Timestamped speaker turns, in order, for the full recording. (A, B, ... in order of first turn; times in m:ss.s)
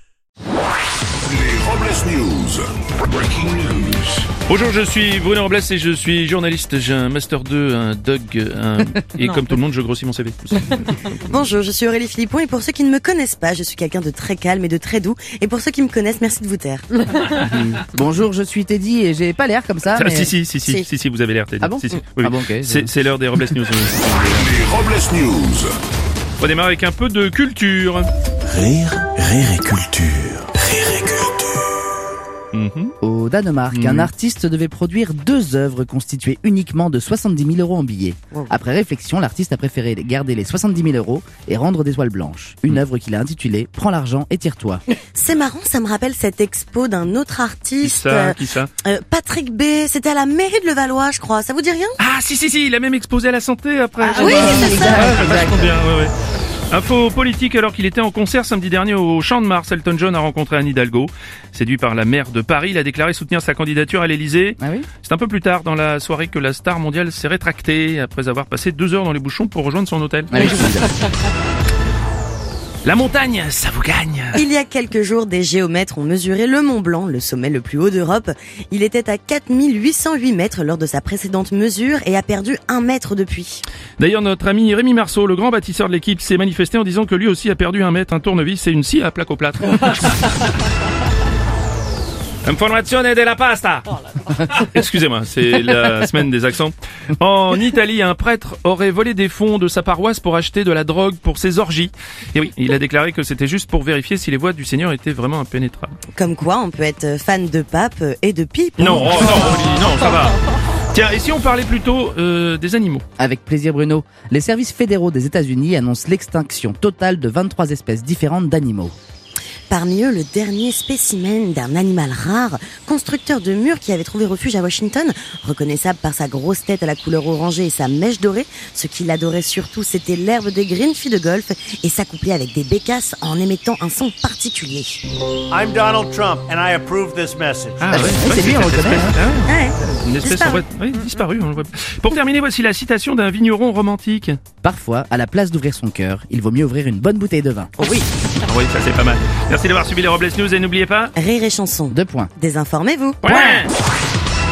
0:01.2-0:04.3 A
0:04.4-0:11.1 B
0:11.3-0:16.9 C
0:17.3-0:20.3 D
0:19.9-0:24.6 B
0:21.6-0:22.9 D
0:24.3-0:25.7 A
0:26.4-0:28.1 B
0:28.5-0:31.2 E
0:32.5-0:32.9 B
0:33.0-0:44.8 D
0:33.7-0:34.1 B
0:45.1-0:52.0 C
0:47.8-0:48.7 B
0:52.0-0:56.1 B
0:54.0-0:55.7 D
0:54.1-0:55.4 C
0:56.7-1:10.6 B
1:04.6-1:04.9 D
1:10.3-1:10.9 D
1:12.8-1:14.4 B
1:14.3-1:23.6 C
1:24.0-1:30.3 B
1:32.4-1:45.9 B
1:46.1-1:49.7 C
1:48.8-1:50.4 B
1:50.9-1:53.0 B
1:53.2-1:59.0 D
1:59.7-2:15.0 C
2:15.5-2:18.0 F
2:17.8-2:24.4 B
2:17.9-2:19.2 D
2:19.4-2:20.6 C
2:24.6-2:27.7 D
2:27.8-2:28.1 C
2:28.4-2:31.1 B
2:31.2-2:33.6 C
2:31.9-2:32.3 D
2:33.2-2:33.7 B